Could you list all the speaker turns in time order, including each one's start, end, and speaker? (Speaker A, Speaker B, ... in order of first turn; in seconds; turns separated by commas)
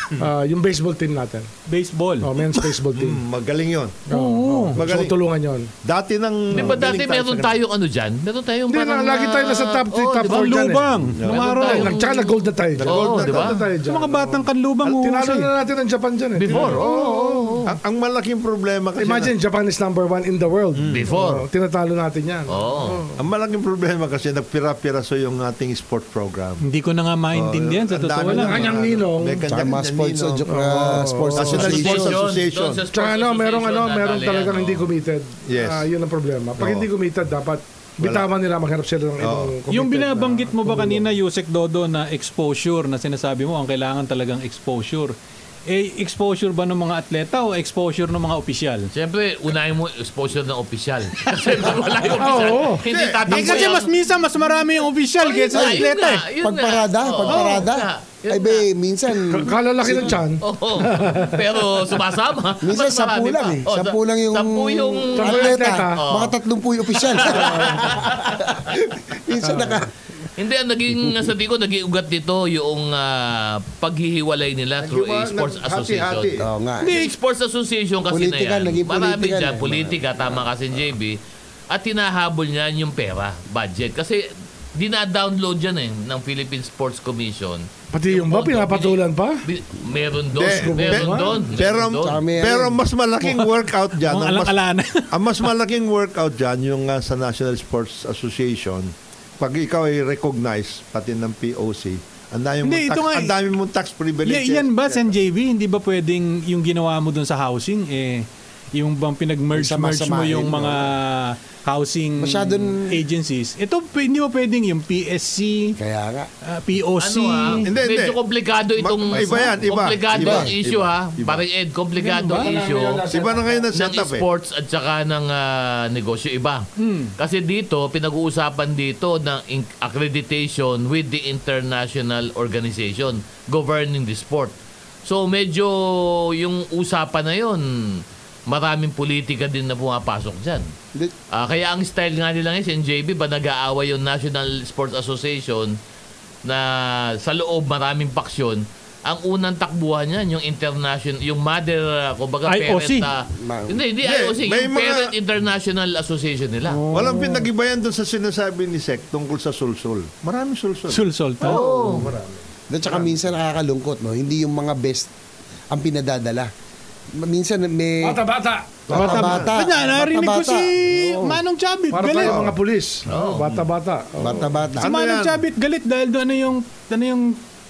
Speaker A: 0.1-1.5, Speaker B: 1.7-2.3, Speaker A: 2.2-3.2, Speaker C: 2.9-4.0, Speaker A: 4.1-5.7, Speaker B: 4.1-4.8, Speaker C: 4.7-5.2, Speaker C: 5.8-7.6, Speaker D: 6.5-10.7, Speaker A: 8.7-11.0, Speaker B: 10.2-12.0, Speaker C: 11.2-11.6, Speaker D: 11.2-13.6, Speaker A: 11.5-14.4, Speaker C: 12.8-13.6, Speaker B: 13.8-15.5, Speaker A: 15.0-17.6, Speaker D: 16.4-17.7, Speaker C: 17.6-19.3, Speaker A: 19.0-23.2, Speaker C: 20.7-21.1, Speaker D: 20.9-21.4, Speaker D: 22.5-23.0, Speaker C: 23.2-26.6, Speaker B: 26.6-28.8, Speaker C: 27.3-32.8, Speaker A: 28.2-29.5, Speaker E: 29.5-32.2, Speaker A: 30.5-31.9, Speaker D: 31.6-34.9, Speaker A: 32.9-41.1, Speaker C: 35.5-35.9, Speaker C: 36.6-36.9, Speaker C: 38.0-38.3, Speaker C: 39.2-39.5, Speaker B: 39.7-45.1, Speaker B: 45.7-48.9, Speaker D: 48.9-54.0, Speaker A: 52.2-52.8, Speaker C: 52.8-53.7, Speaker B: 53.3-56.2, Speaker D: 55.2-58.6, Speaker E: 55.5-60.2, Speaker B: 57.3-57.6, Speaker A: 59.2-61.4, Speaker D: 60.0-66.3, Speaker E: 62.6-69.9, Speaker A: 65.1-66.0, Speaker D: 67.0-68.4, Speaker A: 67.3-67.8, Speaker D: 70.4-81.2, Speaker C: 74.8-76.5, Speaker E: 76.4-77.0, Speaker E: 78.1-80.0, Speaker D: 81.7-92.2, Speaker A: 87.9-89.4, Speaker C: 90.3-94.6, Speaker A: 90.4-91.4, Speaker E: 92.0-92.8, Speaker B: 93.2-95.5, Speaker C: 95.1-105.1, Speaker B: 102.6-103.3, Speaker B: 104.2-115.8, Speaker E: 109.5-110.9, Speaker E: 112.2-113.0, Speaker E: 115.8-116.3, Speaker B: 116.4-117.7, Speaker D: 117.0-123.0, Speaker C: 117.6-118.2, Speaker C: 118.8-121.4, Speaker E: 120.1-120.5, Speaker A: 122.0-123.7, Speaker B: 122.2-122.5, Speaker C: 123.1-124.2, Speaker D: 123.7-126.6, Speaker B: 126.8-127.1, Speaker D: 127.2-134.5, Speaker D: 135.0-140.7, Speaker D: 141.3-145.8, Speaker D: 146.4-156.8, Speaker B: 152.4-153.1, Speaker E: 153.4-153.8, Speaker C: 154.0-155.1, Speaker B: 156.7-157.5, Speaker C: 156.9-161.0, Speaker B: 160.9-161.7, Speaker D: 161.4-162.1, Speaker A: 161.5-162.2, Speaker C: 161.8-162.3, Speaker E: 162.7-165.1, Speaker C: 162.9-163.1, Speaker E: 165.7-166.5, Speaker E: 167.2-168.2, Speaker A: 168.0-169.4, Speaker C: 168.9-169.5, Speaker E: 168.9-171.4, Speaker B: 168.9-172.4, Speaker A: 171.9-174.7, Speaker C: 172.2-172.5, Speaker D: 173.1-173.4, Speaker C: 173.1-173.6, Speaker E: 174.2-174.9, Speaker C: 174.8-175.4, Speaker B: 174.8-177.4